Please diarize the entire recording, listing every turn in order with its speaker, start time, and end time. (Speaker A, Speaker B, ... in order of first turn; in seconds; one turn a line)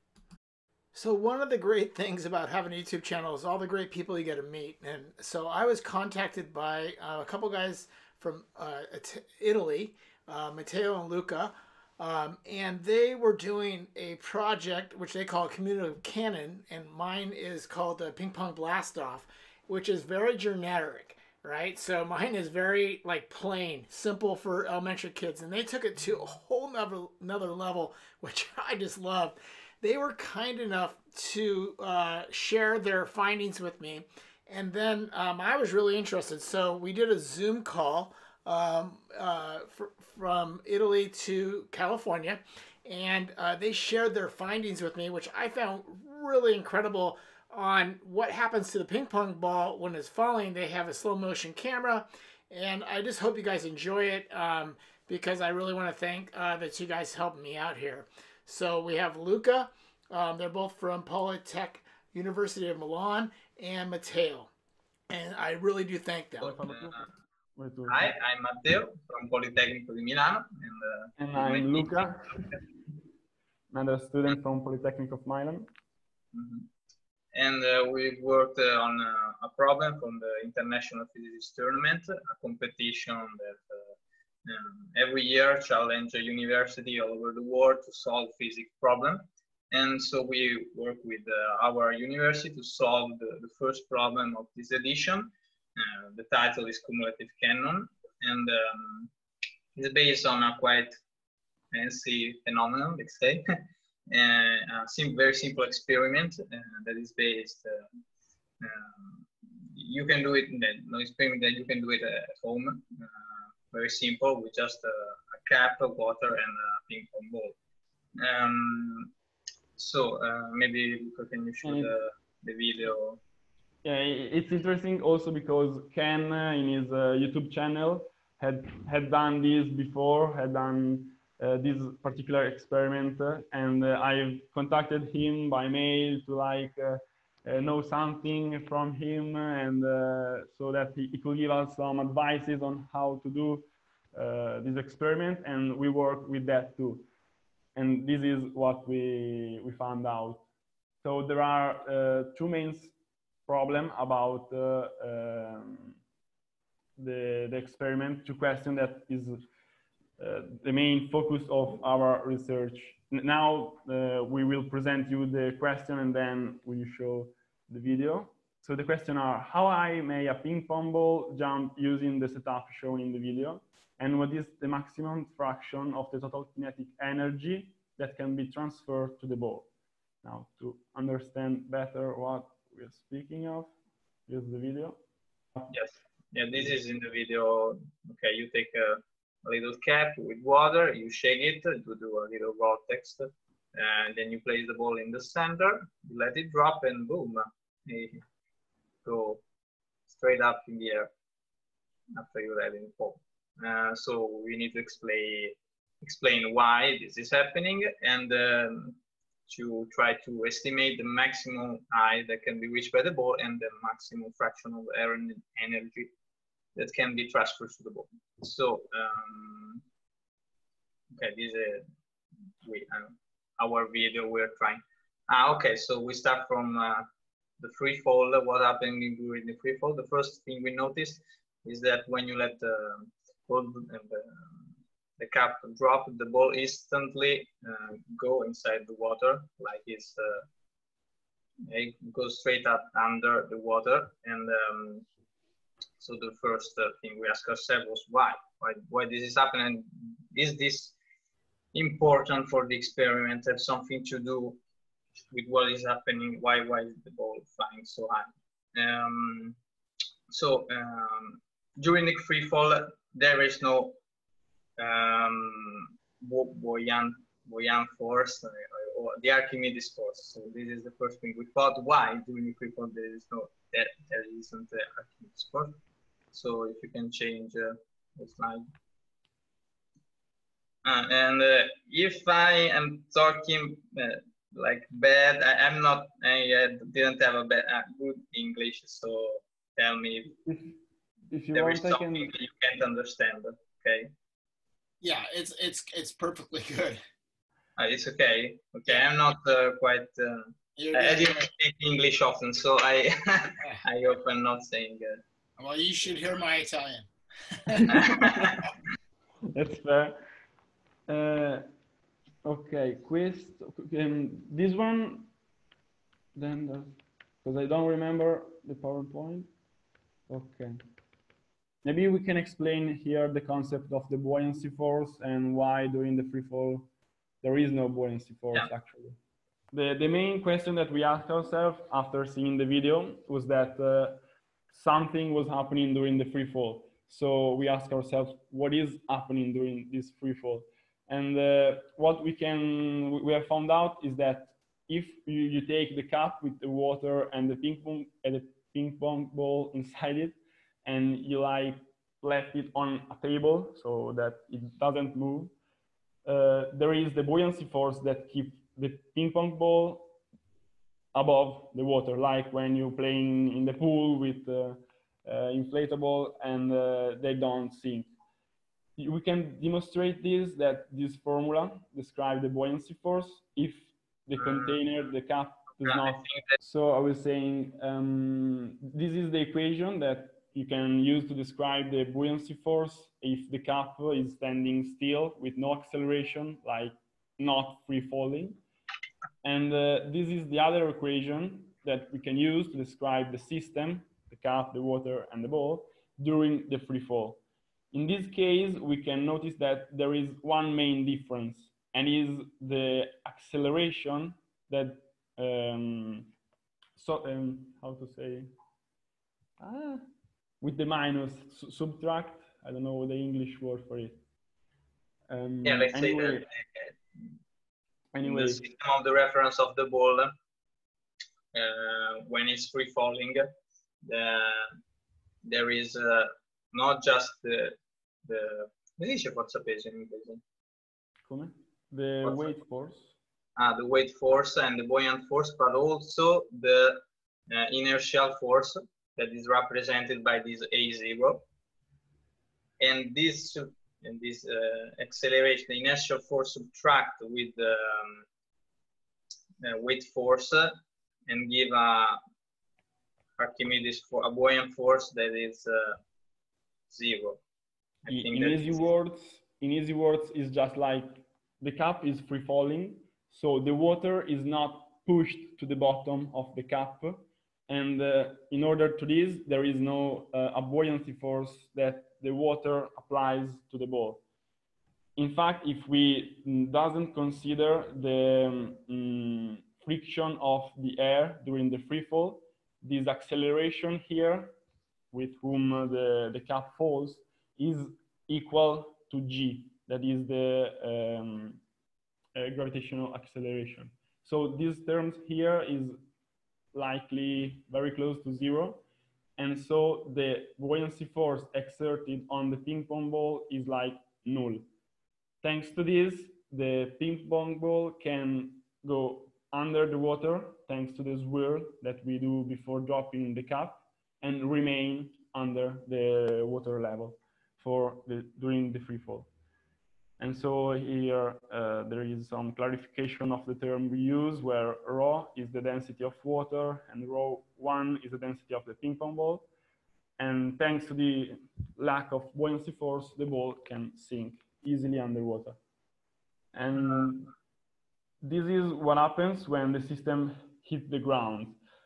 Speaker A: 0.9-64.5
Speaker A: 65.1-66.5
Speaker B: 66.4-67.1
Speaker C: 66.4-68.1
Speaker B: 67.9-71.9
Speaker C: 71.2-72.5
Speaker C: 73.7-75.7
Speaker B: 76.3-76.7
Speaker B: 77.3-83.9
Speaker B: 84.4-99.1
Speaker B: 99.8-100.9
Speaker B: 101.7-103.4
Speaker B: 104.1-107.9
Speaker B: 108.6-113.1
Speaker B: 113.7-117.5
Speaker B: 118.2-119.1
Speaker B: 119.8-123.2
Speaker C: 121.6-121.9
Speaker C: 123.8-147.1
Speaker C: 147.7-150.4
Speaker C: 151.0-152.9
Speaker C: 153.5-156.0
Speaker C: 157.0-159.4
Speaker C: 160.2-179.7
Speaker C: 180.2-183.7
Speaker C: 184.3-185.0
Speaker B: 185.7-198.2
Speaker B: 199.0-199.4
Speaker B: 200.1-201.1
Speaker B: 202.1-209.0
Speaker B: 209.5-216.1
Speaker B: 216.8-219.8
Speaker B: 221.2-221.8
Speaker B: 222.6-227.1
Speaker B: 227.6-234.7
Speaker B: 235.2-240.4
Speaker B: 241.7-245.1
Speaker B: 246.0-250.9
Speaker B: 251.7-254.6
Speaker B: 255.3-259.6
Speaker B: 260.3-263.9
Speaker B: 264.8-275.8
Speaker B: 276.3-278.6
Speaker B: 280.8-290.3
Speaker C: 290.3-290.8
Speaker C: 291.3-292.3
Speaker B: 291.5-294.1
Speaker A: 295.0-297.0
Speaker B: 297.8-305.2
Speaker A: 300.8-301.5
Speaker A: 305.6-308.1
Speaker B: 307.9-308.6
Speaker C: 307.9-308.5
Speaker C: 309.5-310.2
Speaker C: 311.1-311.6
Speaker C: 312.4-315.3
Speaker C: 316.3-319.5
Speaker C: 320.3-320.8
Speaker C: 321.8-326.9
Speaker C: 327.4-329.2
Speaker C: 329.7-334.2
Speaker C: 334.7-355.5
Speaker C: 356.2-360.1
Speaker C: 361.1-368.1
Speaker C: 369.0-388.6
Speaker B: 374.4-374.8
Speaker B: 375.8-376.6
Speaker C: 389.4-397.4
Speaker C: 397.9-406.3
Speaker C: 407.0-408.5
Speaker C: 409.6-410.0
Speaker C: 410.6-414.2
Speaker C: 415.3-416.4
Speaker B: 415.6-416.9
Speaker C: 418.1-418.6
Speaker B: 418.2-420.3
Speaker B: 421.5-423.5
Speaker B: 424.0-424.8
Speaker B: 425.4-430.4
Speaker C: 431.2-433.1
Speaker B: 432.2-432.5
Speaker B: 433.6-441.4
Speaker B: 442.8-448.2
Speaker B: 449.6-450.7
Speaker B: 451.3-452.2
Speaker B: 453.4-456.0
Speaker B: 456.9-457.4
Speaker B: 458.0-458.8
Speaker C: 458.1-474.2
Speaker C: 475.1-484.5
Speaker C: 485.1-491.6
Speaker C: 492.3-495.9
Speaker C: 496.7-498.8
Speaker C: 499.4-504.6
Speaker C: 505.4-519.3
Speaker C: 520.2-529.5
Speaker C: 530.2-535.6
Speaker C: 536.5-537.3
Speaker C: 538.2-541.6